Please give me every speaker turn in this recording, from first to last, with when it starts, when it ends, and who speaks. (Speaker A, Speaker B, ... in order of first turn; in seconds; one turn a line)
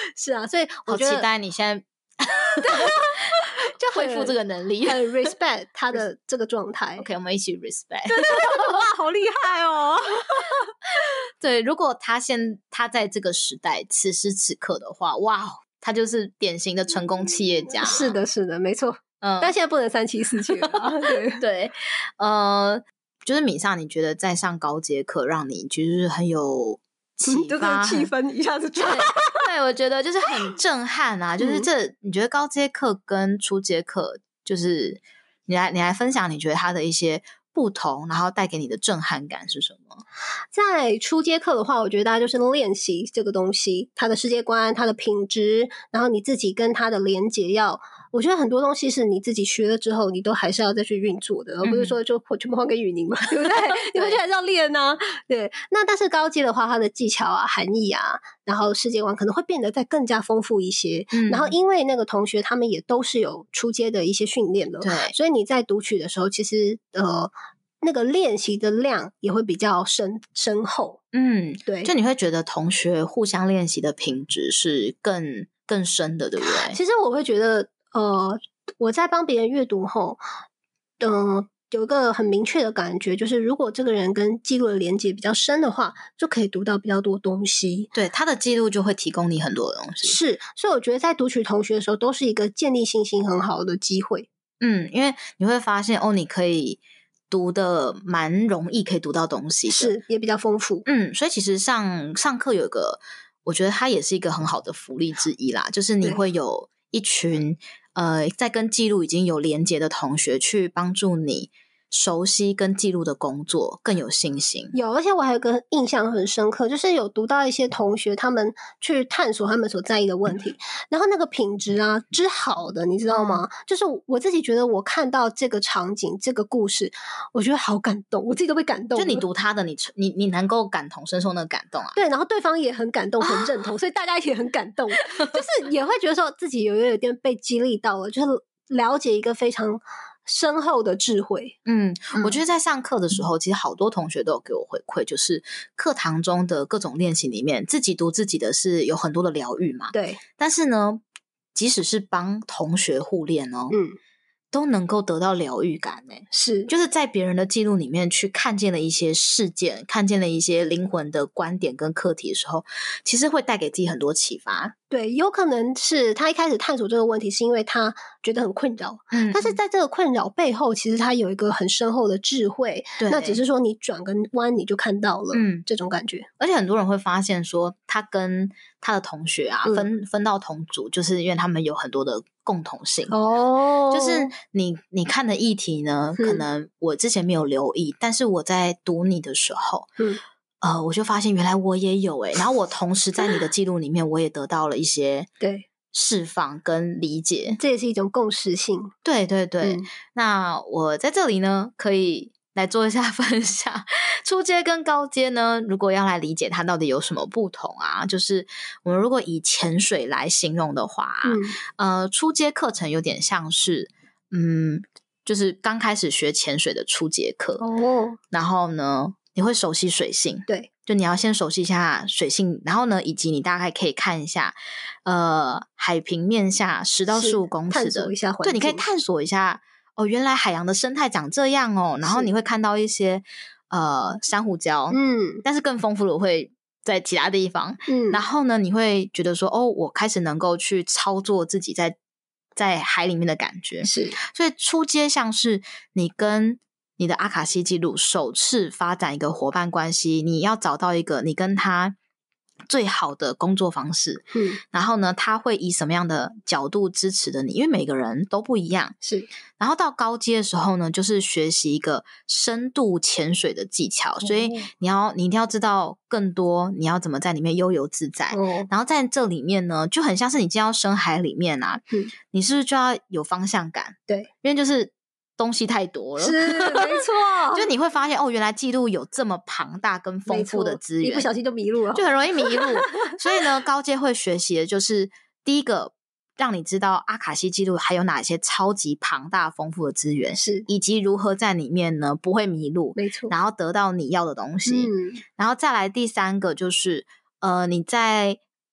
Speaker A: 0.2-1.3
Speaker B: 0.9-3.0
Speaker A: 2.6-7.1
Speaker B: 3.8-5.0
Speaker B: 7.0-8.8
Speaker A: 8.1-10.7
Speaker B: 11.4-18.1
Speaker A: 17.8-21.4
Speaker B: 19.2-19.5
Speaker B: 20.7-28.1
Speaker A: 27.3-29.4
Speaker B: 28.8-40.0
Speaker A: 31.4-31.7
Speaker A: 40.5-71.0
Speaker B: 51.6-52.0
Speaker B: 53.5-54.2
Speaker B: 61.1-61.5
Speaker B: 64.8-65.1
Speaker B: 71.1-76.8
Speaker A: 71.7-71.9
Speaker A: 76.4-80.2
Speaker A: 81.0-87.9
Speaker B: 87.9-90.2
Speaker A: 90.0-94.3
Speaker B: 94.6-100.0
Speaker A: 99.7-100.9
Speaker B: 100.8-114.7
Speaker A: 114.7-129.2
Speaker B: 123.1-123.5
Speaker B: 128.9-132.0
Speaker A: 131.9-141.6
Speaker B: 133.2-133.6
Speaker B: 135.0-135.4
Speaker B: 141.7-151.0
Speaker A: 142.1-142.4
Speaker A: 149.9-150.2
Speaker B: 151.6-153.8
Speaker A: 153.7-154.0
Speaker B: 154.5-164.7
Speaker A: 156.3-156.7
Speaker A: 164.9-176.3
Speaker B: 169.1-169.6
Speaker B: 173.0-173.4
Speaker B: 175.3-175.7
Speaker B: 176.4-183.1
Speaker A: 179.7-179.9
Speaker A: 183.1-184.3
Speaker B: 183.9-189.9
Speaker A: 186.2-186.4
Speaker B: 190.6-195.3
Speaker A: 195.4-195.7
Speaker B: 195.9-197.6
Speaker A: 197.6-198.9
Speaker B: 199.0-217.6
Speaker A: 199.6-199.9
Speaker A: 211.2-211.6
Speaker A: 217.6-218.2
Speaker B: 218.3-242.0
Speaker A: 227.1-228.8
Speaker A: 234.9-235.4
Speaker A: 237.9-238.2
Speaker B: 242.6-252.0
Speaker A: 243.8-244.2
Speaker B: 252.7-258.9
Speaker A: 254.3-254.6
Speaker A: 259.0-259.3
Speaker B: 259.6-281.3
Speaker A: 264.2-264.7
Speaker A: 268.3-268.7
Speaker A: 276.2-277.7
Speaker A: 280.3-282.0
Speaker B: 281.9-298.4
Speaker A: 282.6-283.1
Speaker A: 290.4-290.7
Speaker A: 293.0-293.3
Speaker A: 294.7-295.2